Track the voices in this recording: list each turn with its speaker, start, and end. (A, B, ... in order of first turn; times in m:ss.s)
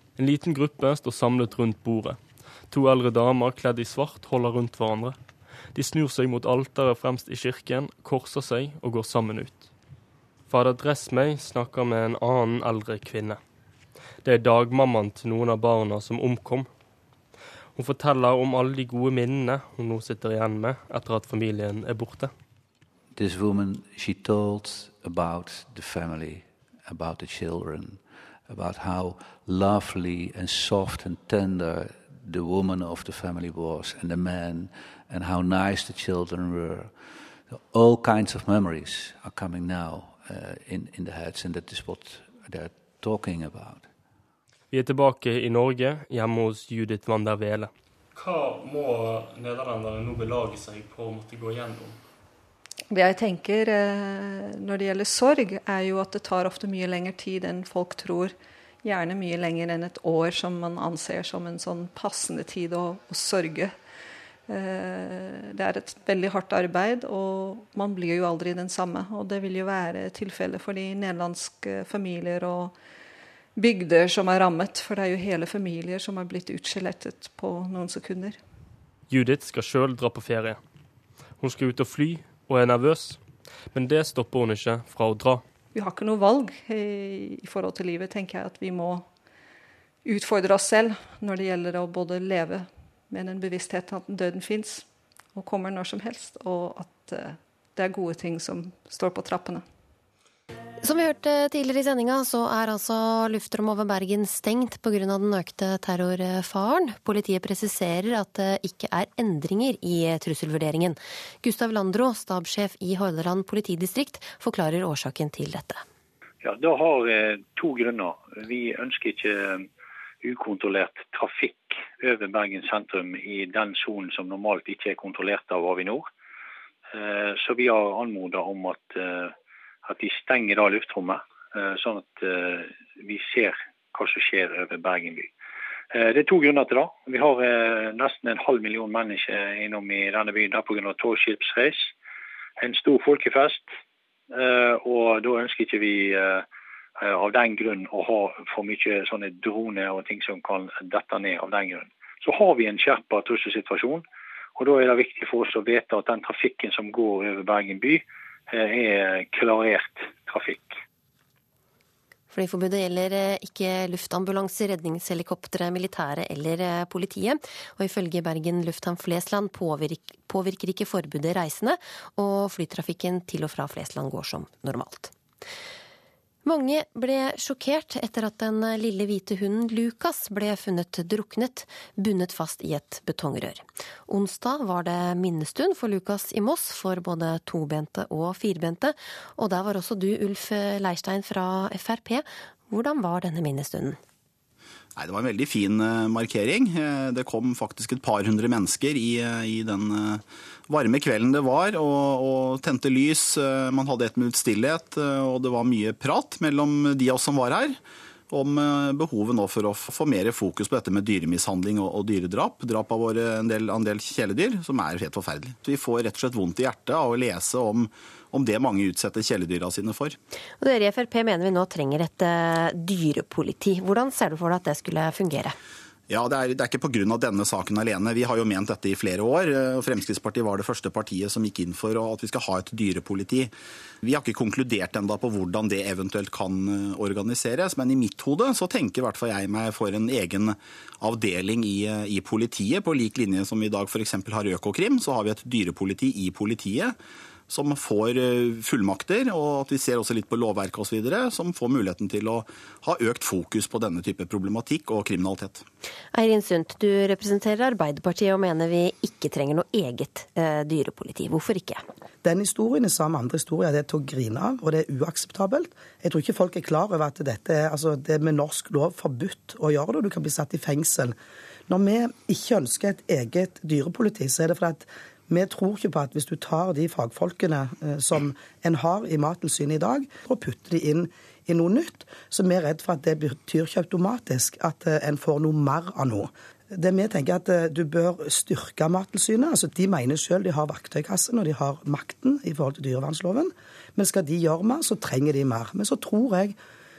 0:00.2-0:05.2 A
0:05.7-0:09.7 A
0:10.5-0:13.4 A
0:14.2-0:16.7 A
0:17.7-0:22.3 A
0:23.1-0:43.9 B
0:44.7-0:47.7 A
0:52.9-1:03.8 C
1:04.5-1:12.8 C
1:13.6-1:18.4 C
1:19.1-1:20.6 A
1:21.4-1:23.2 A
1:23.7-1:25.4 A
1:25.7-1:29.2 C
1:30.0-1:39.6 C
1:40.8-1:55.8 D
1:56.4-1:59.6 E
2:00.2-2:06.1 E
2:06.9-2:09.3 E
2:09.9-2:15.3 E
2:15.9-2:21.9 E
2:22.6-2:23.6 E
2:24.3-2:26.4 E
2:27.0-2:34.0 E
2:34.6-2:40.7 E
2:42.3-2:55.1 D
2:56.4-3:14.0 D
3:15.0-3:27.8 F
3:28.3-3:40.2 F
3:40.6-3:45.6 D
3:46.1-3:53.5 F
3:54.0-4:06.9 F
4:07.5-4:15.6 F
4:16.1-4:21.8 D
4:22.2-4:31.2 G
4:31.7-4:56.6 G